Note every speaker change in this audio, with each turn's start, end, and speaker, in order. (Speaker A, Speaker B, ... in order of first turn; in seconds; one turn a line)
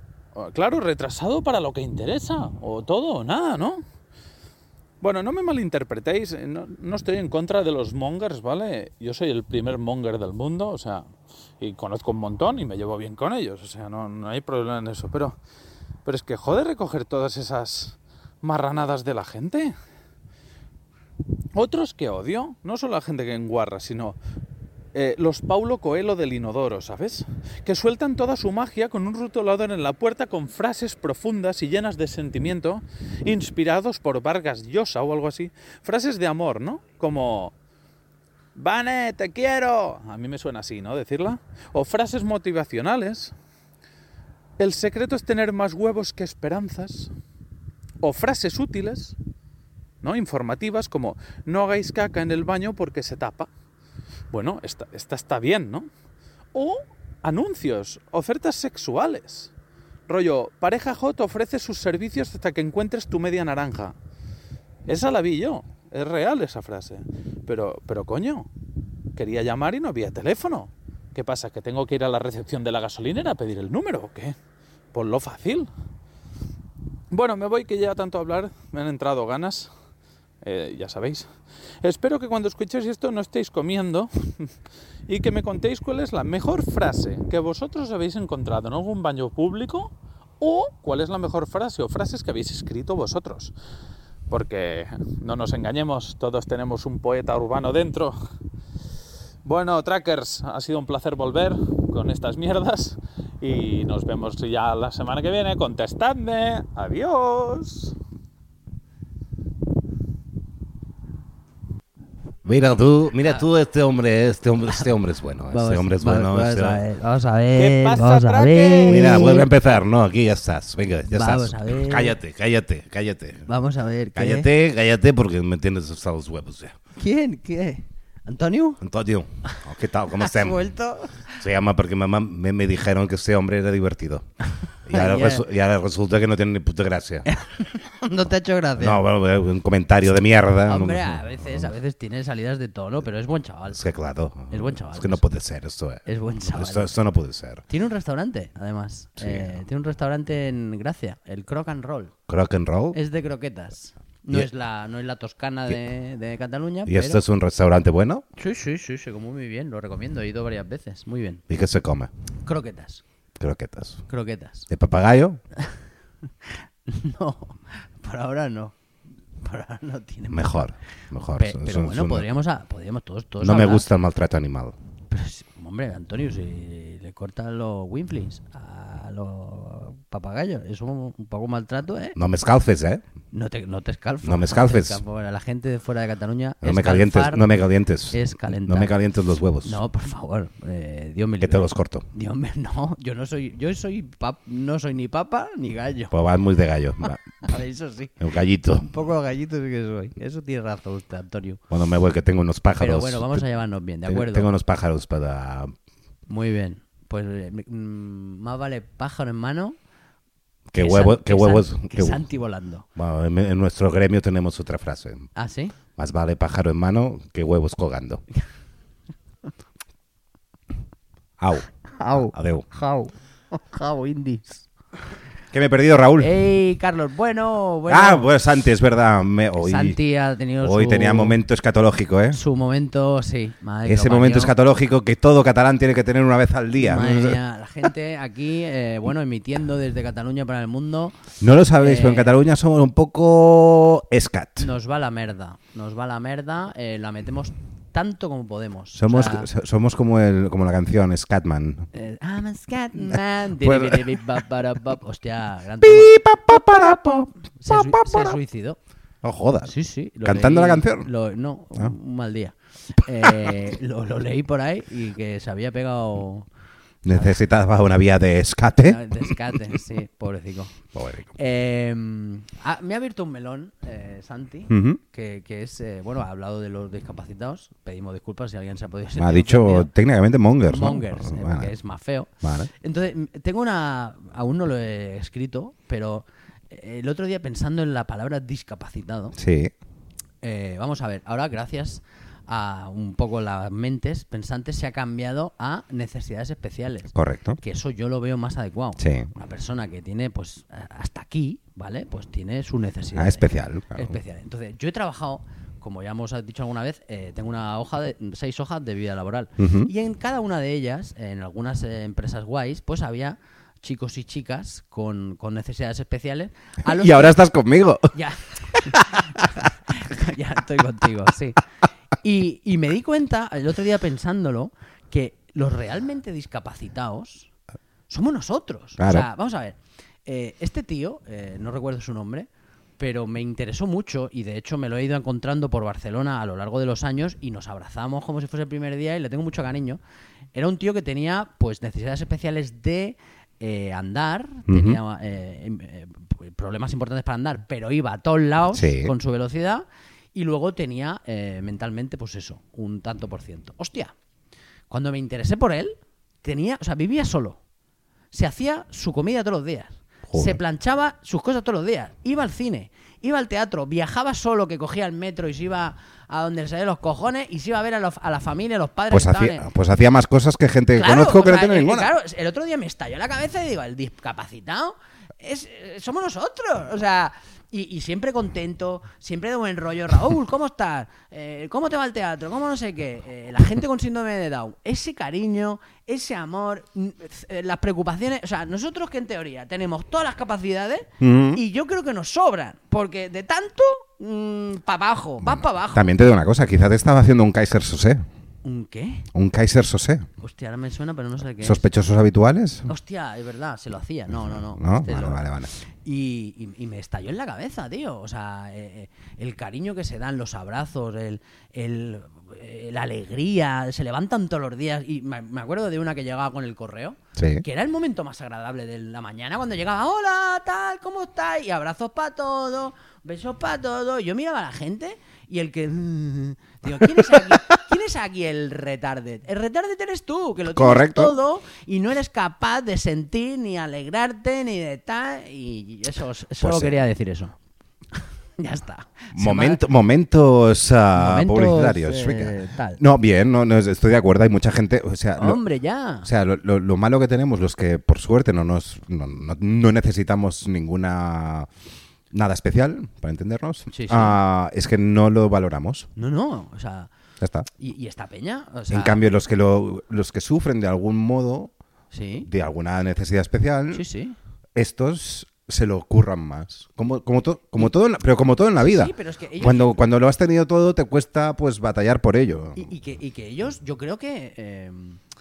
Speaker A: 0.3-3.8
Speaker A: 5.0-11.1
Speaker A: 11.6-15.4
Speaker A: 16.0-19.7
Speaker A: 21.5-24.1
Speaker A: 24.9-37.5
Speaker A: 38.5-43.3
Speaker A: 44.6-47.1
Speaker A: 48.0-49.1
Speaker A: 50.0-53.5
Speaker A: 54.3-55.9
Speaker A: 56.5-59.5
Speaker A: 60.1-63.9
Speaker A: 64.8-68.5
Speaker A: 69.2-74.3
Speaker A: 74.9-75.7
Speaker A: 77.1-79.7
Speaker A: 80.4-81.3
Speaker A: 81.8-84.5
Speaker A: 85.1-93.5
Speaker A: 94.3-98.2
Speaker A: 99.4-107.9
Speaker B: 112.4-116.8
Speaker C: 115.5-119.5
Speaker A: 117.5-119.4
Speaker B: 118.8-123.5
Speaker C: 121.1-122.2
Speaker C: 123.5-124.5
Speaker B: 124.1-126.8
Speaker C: 127.0-128.8
Speaker B: 128.8-130.6
Speaker C: 130.1-131.4
Speaker B: 131.3-134.2
Speaker B: 134.8-137.3
Speaker C: 134.9-135.4
Speaker C: 137.2-139.0
Speaker B: 138.8-141.7
Speaker C: 140.7-143.8
Speaker B: 143.7-147.6
Speaker C: 144.5-145.2
Speaker C: 146.1-146.9
Speaker C: 147.7-152.1
Speaker B: 149.2-149.6
Speaker B: 152.3-153.0
Speaker C: 152.9-157.2
Speaker B: 156.8-158.2
Speaker C: 158.4-161.4
Speaker B: 161.5-162.1
Speaker C: 162.4-163.0
Speaker B: 163.4-164.0
Speaker C: 164.1-164.7
Speaker B: 164.7-165.4
Speaker C: 166.4-168.8
Speaker C: 169.4-170.7
Speaker B: 170.3-172.2
Speaker C: 171.3-173.8
Speaker B: 173.4-174.7
Speaker C: 175.1-182.2
Speaker B: 182.2-183.0
Speaker C: 183.3-187.5
Speaker B: 184.2-185.0
Speaker B: 186.6-189.8
Speaker C: 188.1-188.9
Speaker C: 189.6-196.1
Speaker B: 191.4-192.0
Speaker B: 196.1-197.4
Speaker C: 197.4-198.2
Speaker B: 198.2-198.9
Speaker C: 198.8-201.6
Speaker B: 201.7-203.4
Speaker C: 202.8-204.5
Speaker B: 204.0-205.7
Speaker C: 206.3-209.8
Speaker B: 210.7-212.2
Speaker C: 210.7-212.8
Speaker B: 212.9-215.3
Speaker C: 215.3-215.8
Speaker B: 215.9-218.2
Speaker B: 221.4-222.7
Speaker C: 222.0-224.6
Speaker B: 225.5-226.3
Speaker C: 226.2-228.3
Speaker B: 227.9-230.0
Speaker C: 229.6-231.4
Speaker B: 230.6-232.4
Speaker C: 232.3-234.5
Speaker B: 233.8-237.4
Speaker C: 236.7-241.2
Speaker B: 241.4-244.7
Speaker C: 241.8-242.4
Speaker C: 244.6-249.5
Speaker B: 248.9-251.9
Speaker C: 251.9-256.1
Speaker B: 253.6-254.4
Speaker B: 255.8-258.4
Speaker C: 257.6-258.8
Speaker B: 259.2-259.7
Speaker C: 259.6-266.5
Speaker B: 260.2-261.1
Speaker B: 267.0-269.5
Speaker C: 267.1-267.4
Speaker C: 268.8-270.8
Speaker B: 270.9-271.3
Speaker C: 271.3-279.9
Speaker B: 274.7-275.0
Speaker B: 279.2-281.7
Speaker C: 280.6-289.4
Speaker B: 282.4-282.7
Speaker B: 289.3-289.7
Speaker C: 290.4-317.4
Speaker B: 297.1-297.6
Speaker B: 299.0-299.3
Speaker B: 303.1-304.1
Speaker B: 309.6-309.9
Speaker B: 316.8-318.1
Speaker C: 318.1-321.6
Speaker B: 318.7-319.7
Speaker C: 322.2-327.5
Speaker C: 328.1-340.0
Speaker B: 329.0-329.3
Speaker C: 340.5-354.1
Speaker B: 344.7-345.0
Speaker B: 348.7-349.1
Speaker C: 354.9-357.6
Speaker C: 358.3-369.6
Speaker B: 360.3-360.6
Speaker B: 369.1-372.1
Speaker C: 370.9-396.1
Speaker B: 391.2-391.6
Speaker B: 395.4-398.2
Speaker C: 398.6-399.3
Speaker B: 399.3-400.3
Speaker C: 400.4-401.9
Speaker B: 401.6-402.9
Speaker C: 402.9-437.5
Speaker B: 404.3-405.7
Speaker B: 417.4-417.6
Speaker B: 426.9-427.6
Speaker B: 430.7-431.3
Speaker B: 436.6-436.9
Speaker C: 438.1-439.8
Speaker B: 439.3-445.6
Speaker C: 441.1-443.0
Speaker C: 445.4-446.3
Speaker B: 446.2-451.7
Speaker B: 452.3-456.1
Speaker C: 453.9-454.4
Speaker C: 456.1-457.1
Speaker B: 457.4-457.7
Speaker C: 457.8-459.2
Speaker B: 458.9-461.7
Speaker C: 462.1-462.5
Speaker B: 462.5-464.0
Speaker C: 463.9-464.4
Speaker B: 464.8-472.9
Speaker C: 468.8-469.9
Speaker C: 472.7-475.2